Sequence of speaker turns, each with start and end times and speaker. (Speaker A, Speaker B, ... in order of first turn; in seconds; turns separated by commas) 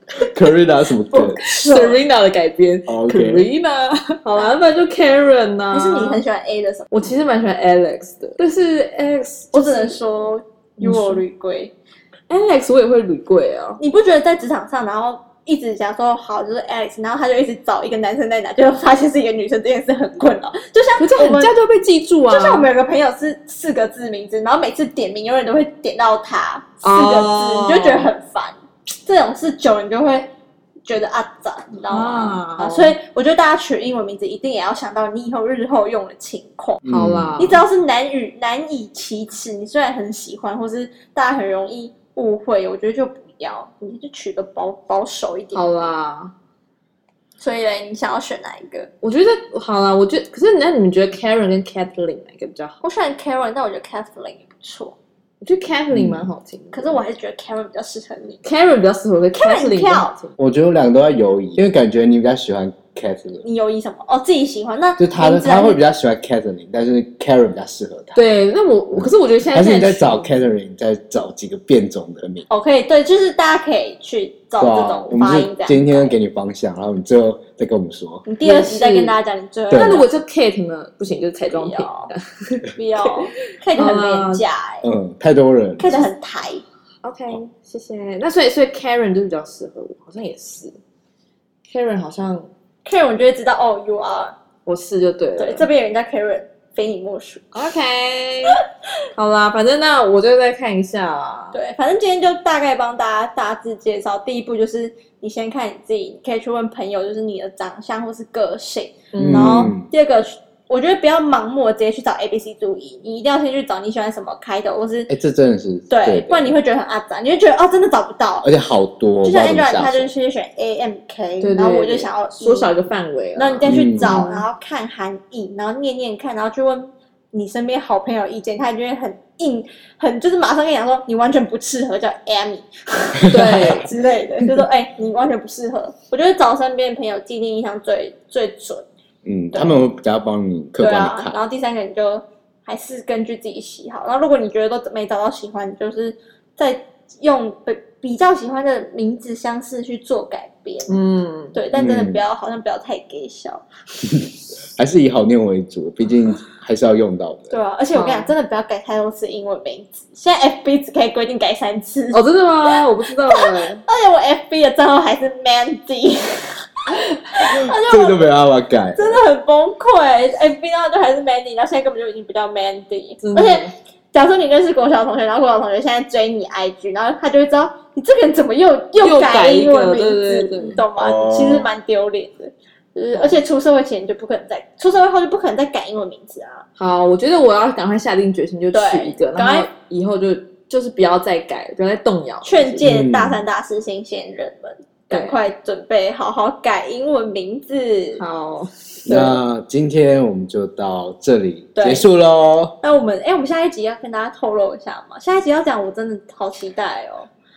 Speaker A: 0.2-1.4, Speaker B: 1.1-2.0, Speaker C: 1.5-6.2, Speaker A: 2.9-3.5, Speaker B: 5.7-6.8, Speaker C: 6.9-10.0, Speaker B: 9.5-11.7, Speaker C: 10.8-11.2, Speaker C: 12.3-13.8, Speaker B: 13.8-21.5, Speaker C: 21.0-22.7, Speaker B: 22.3-30.3, Speaker C: 26.8-28.1, Speaker B: 30.9-36.8, Speaker C: 31.9-32.9, Speaker A: 36.8-37.4, Speaker C: 36.9-37.6, Speaker B: 37.4-45.7, Speaker C: 45.5-46.3, Speaker B: 47.4-48.9, Speaker C: 49.0-52.8, Speaker B: 52.8-55.0, Speaker C: 55.4-57.0, Speaker A: 55.9-56.2, Speaker B: 56.7-58.4, Speaker C: 58.4-60.3, Speaker B: 59.4-60.1, Speaker A: 60.4-63.4, Speaker B: 63.4-65.8, Speaker A: 65.0-68.2, Speaker C: 68.1-70.4, Speaker A: 68.9-72.4, Speaker B: 72.5-76.2, Speaker A: 74.6-78.2, Speaker B: 78.2-80.0, Speaker C: 78.4-79.2, Speaker A: 79.7-80.0, Speaker C: 79.7-83.1, Speaker B: 81.5-82.1, Speaker B: 82.7-84.8, Speaker C: 83.7-84.4, Speaker A: 84.8-86.0, Speaker B: 85.8-86.6, Speaker C: 87.0-90.8, Speaker C: 91.7-92.5, Speaker B: 92.8-94.3, Speaker C: 94.7-95.7, Speaker B: 95.4-97.5, Speaker C: 97.5-98.6, Speaker C: 99.1-101.6, Speaker B: 101.5-115.1, Speaker C: 109.1-109.7, Speaker A: 109.2-109.8, Speaker A: 115.1-116.5, Speaker B: 115.9-118.5, Speaker A: 118.4-120.1, Speaker B: 119.2-122.7, Speaker C: 121.4-124.5, Speaker B: 123.3-138.8, Speaker A: 123.7-124.2, Speaker A: 133.3-133.8, Speaker C: 133.3-133.9, Speaker A: 139.2-141.4, Speaker B: 139.5-139.8, Speaker B: 140.8-150.9, Speaker C: 150.9-151.6, Speaker B: 151.5-153.6, Speaker A: 151.7-152.2, Speaker A: 154.7-157.5, Speaker B: 157.5-168.3, Speaker C: 157.9-158.3, Speaker C: 162.1-163.8, Speaker A: 167.6-169.2, Speaker B: 168.9-186.6, Speaker C: 173.2-173.7, Speaker C: 179.0-180.8, Speaker A: 181.0-181.7, Speaker C: 186.8-192.9, Speaker B: 188.7-189.7, Speaker B: 192.4-198.2, Speaker A: 192.8-193.4, Speaker C: 195.1-195.4, Speaker C: 198.2-199.3, Speaker A: 199.1-202.7, Speaker B: 201.8-202.1, Speaker B: 202.8-207.3